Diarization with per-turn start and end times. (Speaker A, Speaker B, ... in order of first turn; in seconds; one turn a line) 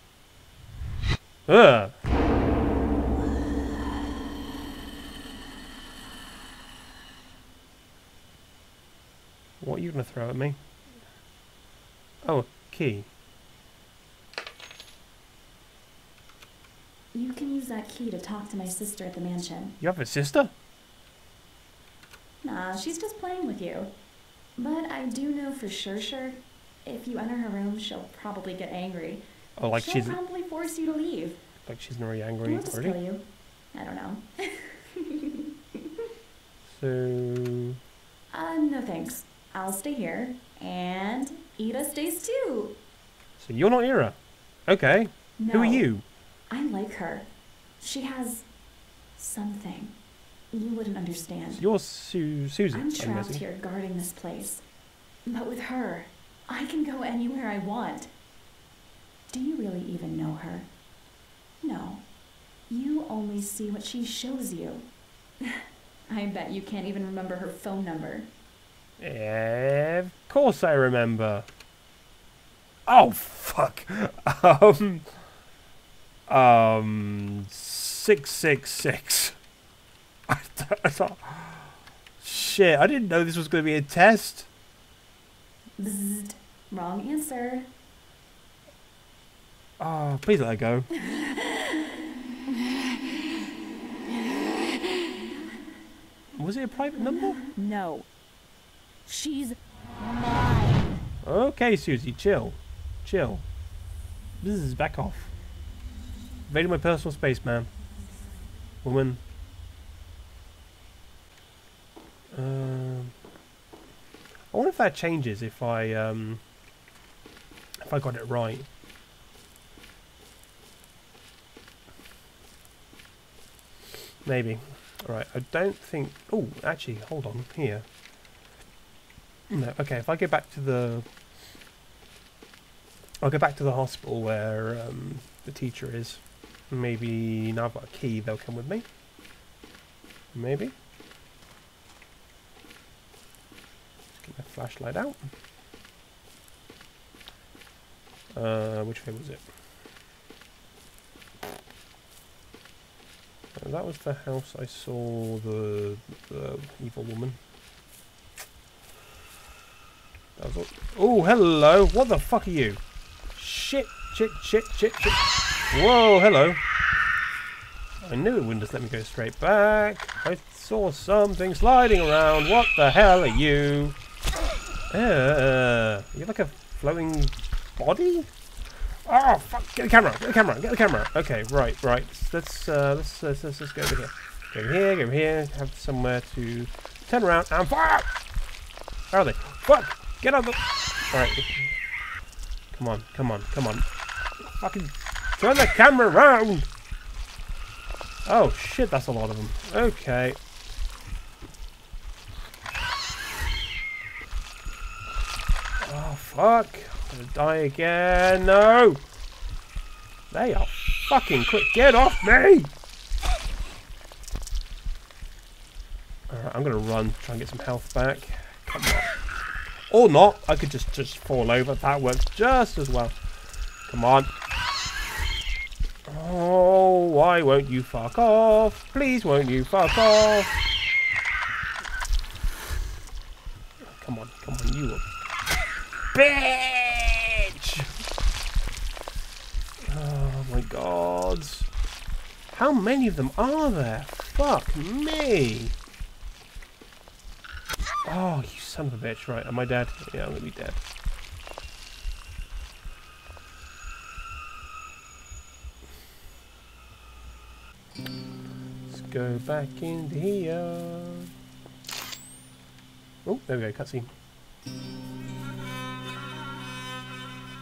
Speaker A: 1.5-1.9
Speaker A: 9.6-10.6
Speaker A: 12.2-13.1
Speaker B: 17.1-19.8
Speaker A: 19.8-20.5
Speaker B: 22.4-23.9
Speaker B: 24.6-31.4
Speaker A: 29.6-30.2
Speaker A: 31.6-33.0
Speaker B: 32.4-35.4
Speaker A: 36.6-37.8
Speaker B: 38.3-42.8
Speaker A: 43.4-44.2
Speaker A: 44.7-46.0
Speaker B: 45.4-45.9
Speaker B: 46.5-47.3
Speaker B: 47.8-48.5
Speaker B: 49.1-50.0
Speaker B: 50.5-51.6
Speaker A: 51.5-53.4
Speaker B: 52.7-54.6
Speaker B: 55.2-58.1
Speaker B: 59.3-60.7
Speaker B: 61.6-62.1
Speaker B: 62.7-64.9
Speaker B: 65.4-68.3
Speaker A: 69.0-71.5
Speaker A: 72.8-75.1
Speaker A: 76.3-79.4
Speaker A: 80.3-84.5
Speaker B: 85.8-87.7
Speaker A: 89.8-90.9
Speaker B: 91.0-91.7
Speaker A: 96.3-97.4
Speaker B: 97.0-98.1
Speaker B: 99.0-100.8
Speaker A: 101.2-103.5
Speaker A: 104.4-105.3
Speaker A: 106.5-107.7
Speaker A: 108.8-109.2
Speaker A: 112.3-113.1
Speaker A: 114.5-116.4
Speaker A: 117.8-118.7
Speaker A: 124.2-127.8
Speaker A: 129.5-131.1
Speaker A: 133.2-138.8
Speaker A: 140.3-140.7
Speaker A: 144.1-145.3
Speaker A: 148.3-149.5
Speaker A: 153.5-157.4
Speaker A: 160.4-162.8
Speaker A: 163.3-166.6
Speaker A: 168.0-174.0
Speaker A: 174.9-178.3
Speaker A: 179.0-188.1
Speaker A: 189.1-191.7
Speaker A: 192.7-193.8
Speaker A: 194.4-196.7
Speaker A: 198.2-200.4
Speaker A: 205.8-209.0
Speaker A: 210.3-212.7
Speaker A: 216.3-219.1
Speaker A: 219.9-223.2
Speaker A: 223.8-224.3
Speaker A: 226.1-230.6
Speaker A: 233.8-235.0
Speaker A: 236.1-238.0
Speaker A: 239.8-241.7
Speaker A: 242.5-245.8
Speaker A: 248.0-250.8
Speaker A: 258.9-261.3
Speaker A: 263.2-264.1